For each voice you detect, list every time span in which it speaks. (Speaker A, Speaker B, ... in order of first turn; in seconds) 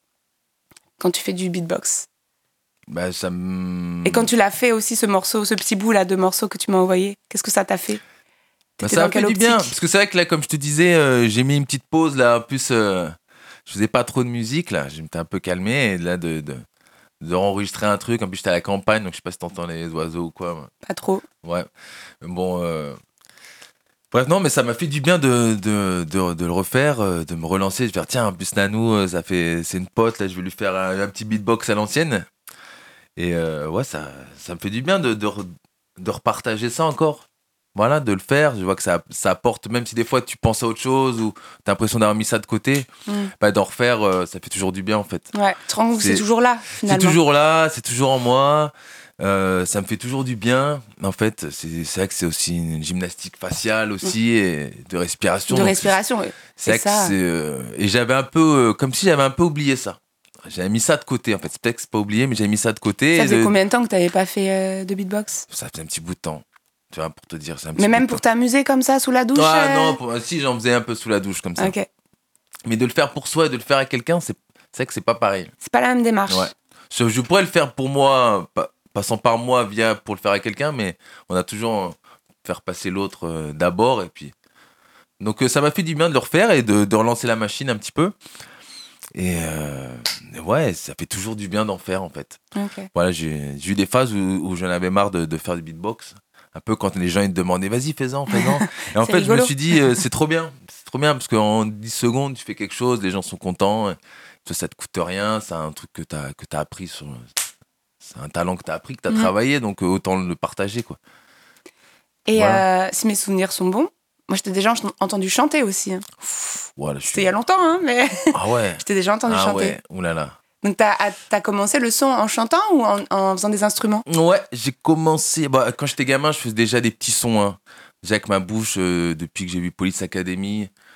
Speaker A: 1.0-2.1, 4.0-8.0, 8.8-9.7, 20.8-21.2, 43.1-43.3, 45.3-47.2, 55.5-57.1, 63.1-65.5, 67.8-70.0, 71.6-71.9, 75.6-76.5, 92.5-92.9, 98.3-99.5, 112.3-116.6, 117.1-119.8, 120.6-124.0
Speaker B: 2.9-4.3, 8.8-13.2, 13.7-16.6, 17.2-20.7, 21.4-21.7, 22.2-23.0, 24.1-32.3, 33.2-42.9, 43.4-45.3, 46.0-46.2, 46.8-56.0, 56.6-63.5, 65.5-68.2, 69.3-71.8, 72.7-75.5, 76.3-84.3, 85.2-88.2, 89.2-92.4, 92.9-107.3, 108.0-111.0, 112.3-112.7, 116.8-117.3, 118.3-120.4, 124.1-130.7